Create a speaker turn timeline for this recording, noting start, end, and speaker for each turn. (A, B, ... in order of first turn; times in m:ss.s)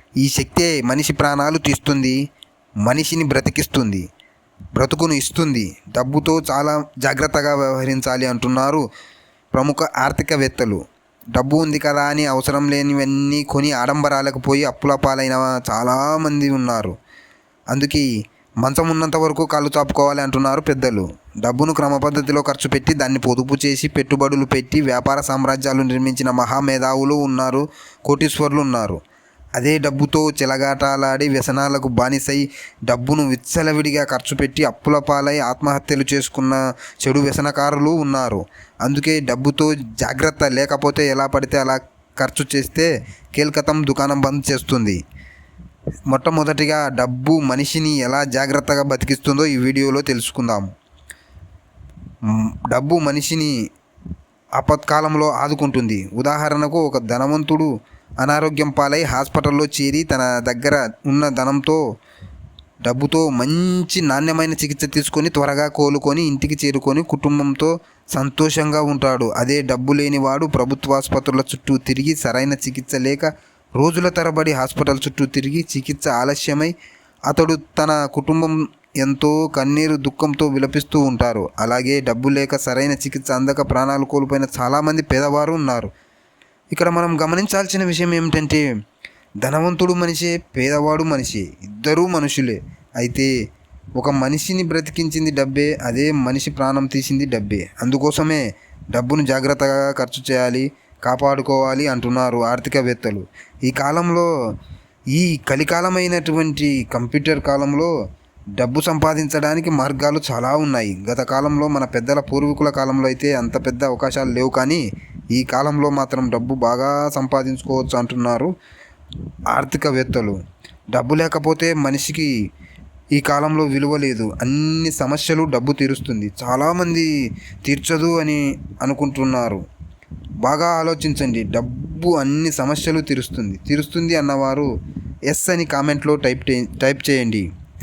0:00.2-0:02.2 A
0:02.8-0:04.1 A
0:04.8-0:08.8 A
0:09.5-0:10.8 A
0:11.3-0:17.0 A
0:17.7-0:18.1 A
0:18.6-0:29.0 A
0:29.6-0:45.0 A
0:46.1-0:50.7 A
0:52.2-0:53.6 A
0:54.6-0:57.7 A
0:58.2-1:01.8 A
1:02.8-1:16.7 A
1:17.3-1:25.9 A
1:26.7-1:28.7 A
1:29.4-1:33.3 A
1:34.0-1:44.3 A
1:45.1-1:47.9 A
1:48.6-1:58.5 A
1:59.5-2:00.4 A
2:00.9-2:02.3 A
2:03.1-2:07.1 A
2:07.6-2:09.6 A
2:10.4-2:14.7 A
2:15.3-2:17.5 A